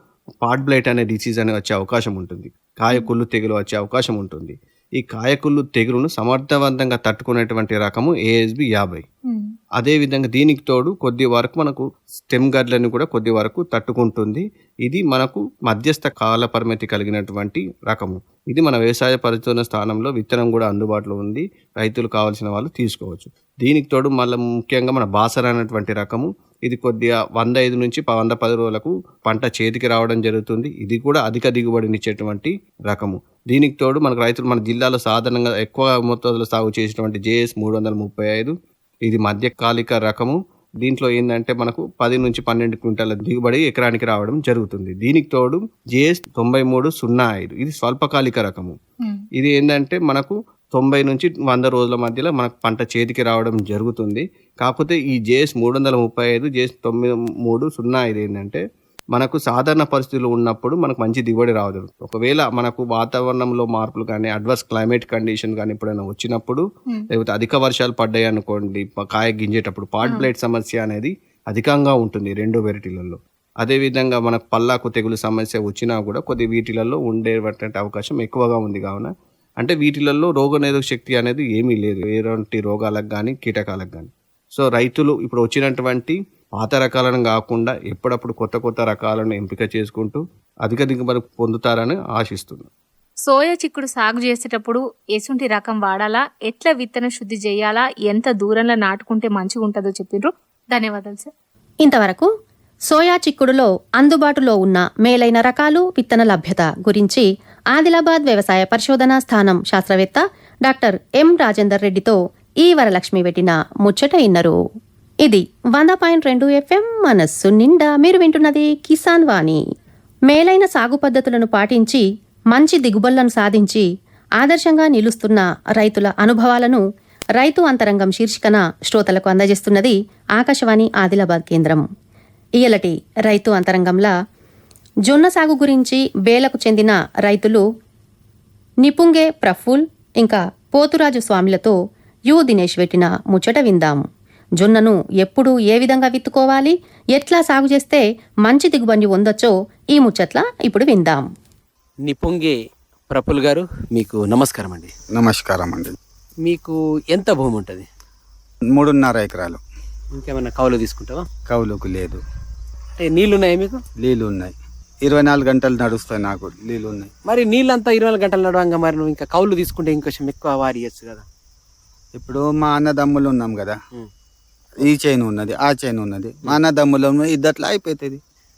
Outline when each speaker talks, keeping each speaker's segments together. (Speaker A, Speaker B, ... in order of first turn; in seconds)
Speaker A: 0.4-9.0, 9.8-38.5, 39.0-48.8, 49.4-58.6, 59.1-92.7
Speaker B: 93.3-101.3
Speaker C: 101.8-102.3, 102.9-114.5, 115.2-119.6, 120.3-123.9, 124.4-126.8, 127.4-131.9, 132.6-134.1, 135.1-137.6, 138.8-141.8, 142.3-144.1, 144.6-151.2
Speaker D: 152.1-152.6, 153.1-154.9, 156.4-157.9, 160.1-161.2, 163.0-163.8, 167.3-171.2
Speaker E: 155.1-156.0, 158.7-159.6, 161.5-162.2, 164.0-167.1, 172.2-173.8, 174.8-178.2